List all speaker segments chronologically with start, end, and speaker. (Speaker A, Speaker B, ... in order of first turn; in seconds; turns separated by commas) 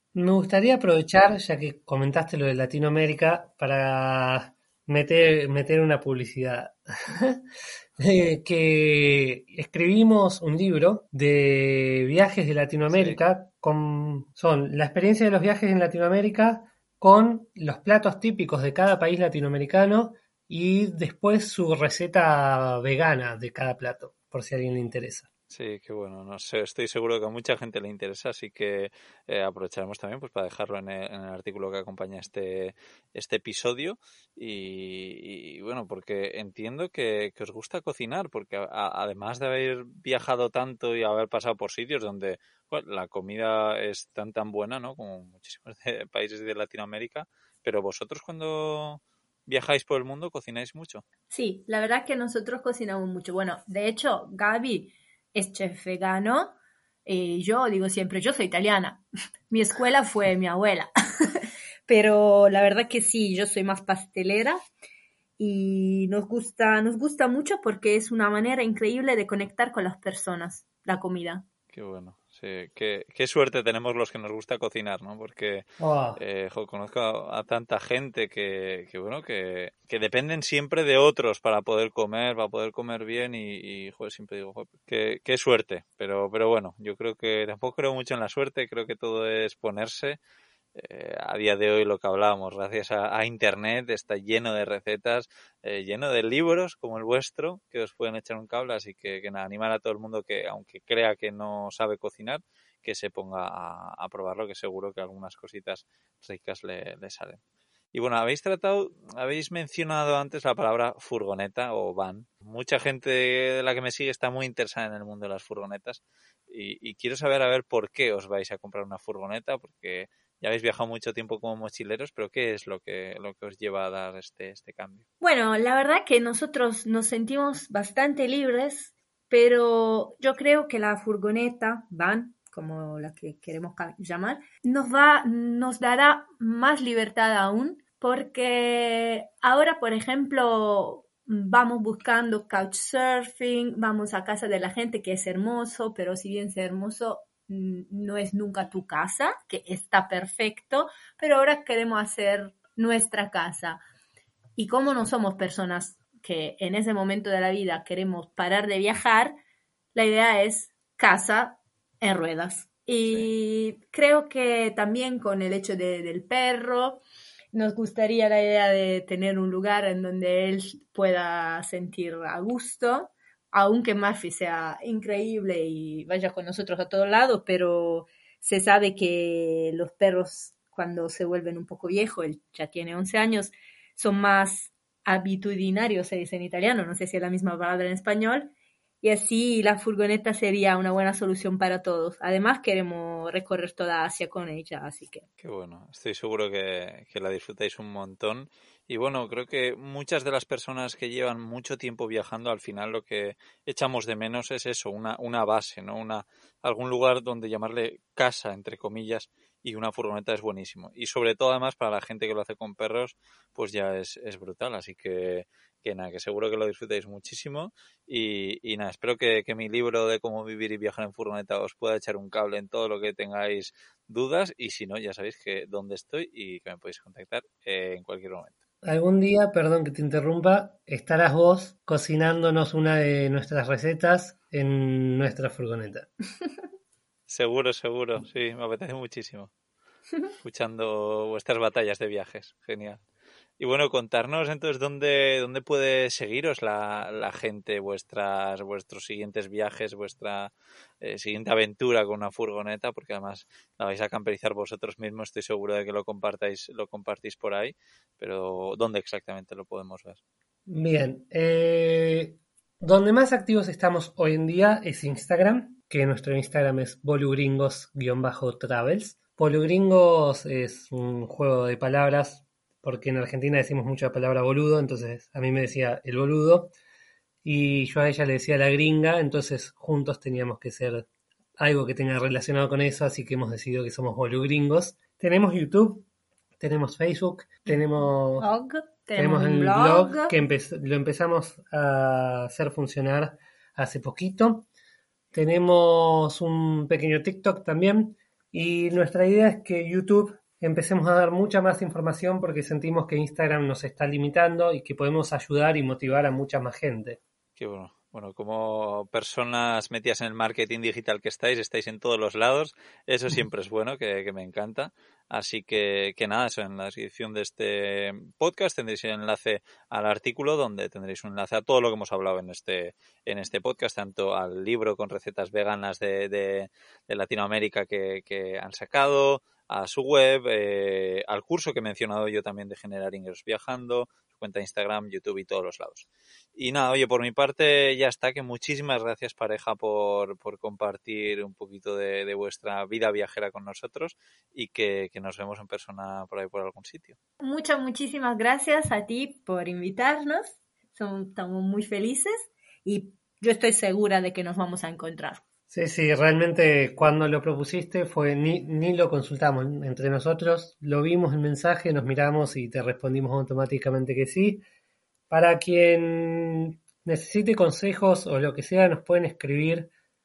Speaker A: 0.1-7.4, Speaker A: 8.0-25.3, Speaker B: 12.9-13.2, Speaker B: 25.5-51.0, Speaker C: 51.3-56.5, Speaker C: 57.0-64.6, Speaker C: 65.4-71.4, Speaker B: 71.7-90.2, Speaker A: 75.8-76.2, Speaker B: 90.7-107.4, Speaker B: 107.9-125.0, Speaker C: 125.2-153.8, Speaker C: 154.6-159.3, Speaker C: 159.9-167.0, Speaker C: 167.5-188.5, Speaker C: 189.0-195.2, Speaker B: 195.4-228.5, Speaker A: 228.8-236.1, Speaker B: 237.3-239.5, Speaker B: 240.4-243.0, Speaker B: 243.6-260.2, Speaker A: 260.7-276.7, Speaker A: 277.4-281.1, Speaker A: 281.6-286.1, Speaker A: 286.6-288.5, Speaker C: 288.4-290.3, Speaker A: 289.2-294.7, Speaker A: 295.3-307.2, Speaker B: 307.6-347.2, Speaker C: 347.4-355.4, Speaker A: 355.7-364.6, Speaker A: 365.3-369.9